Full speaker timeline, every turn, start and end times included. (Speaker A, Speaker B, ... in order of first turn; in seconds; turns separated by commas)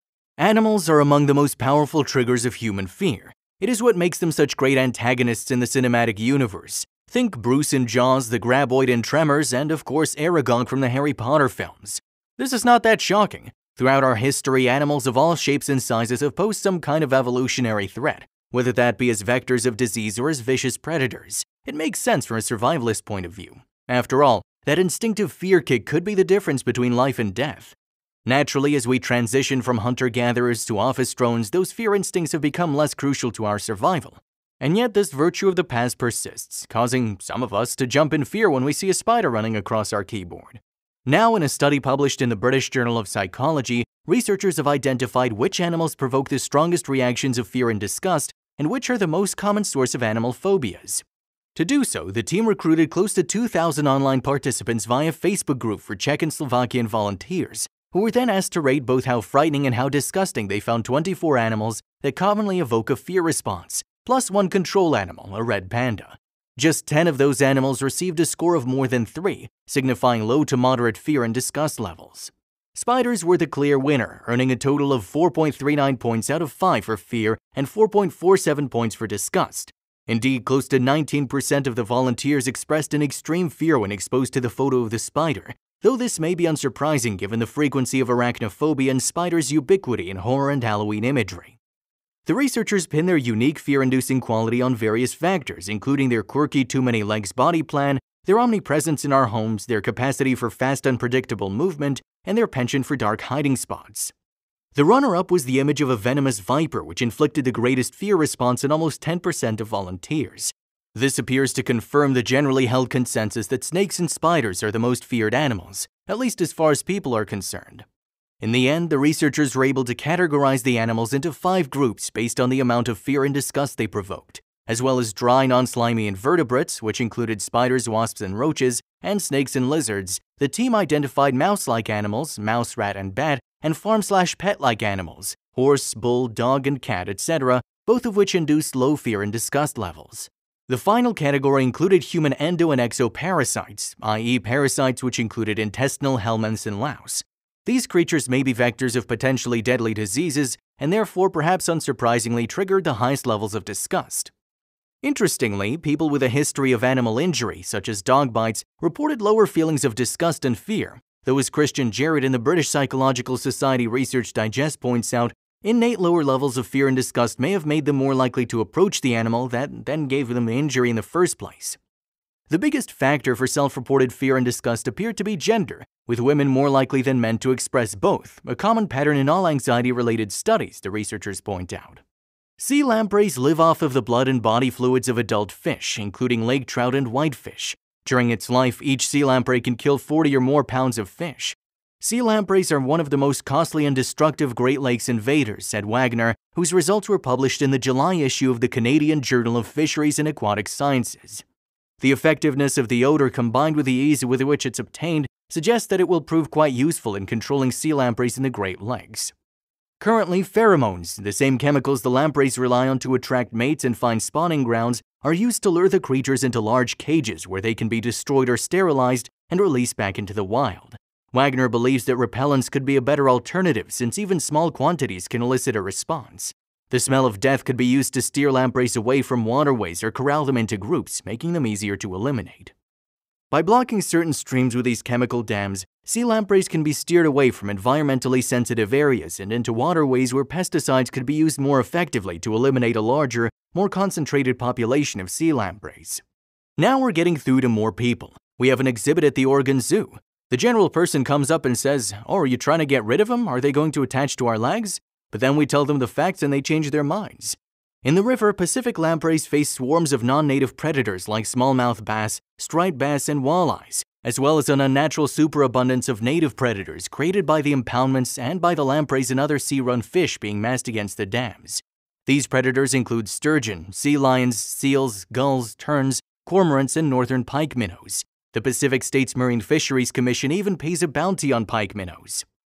Speaker A: 0.4-51.0, Speaker A: 51.6-91.6, Speaker A: 92.3-104.1, Speaker A: 104.8-117.8, Speaker A: 118.4-154.3, Speaker A: 155.0-171.8, Speaker A: 172.5-182.0, Speaker A: 182.6-201.4, Speaker A: 202.0-209.3, Speaker A: 210.0-232.7, Speaker A: 233.5-246.2, Speaker A: 246.8-282.5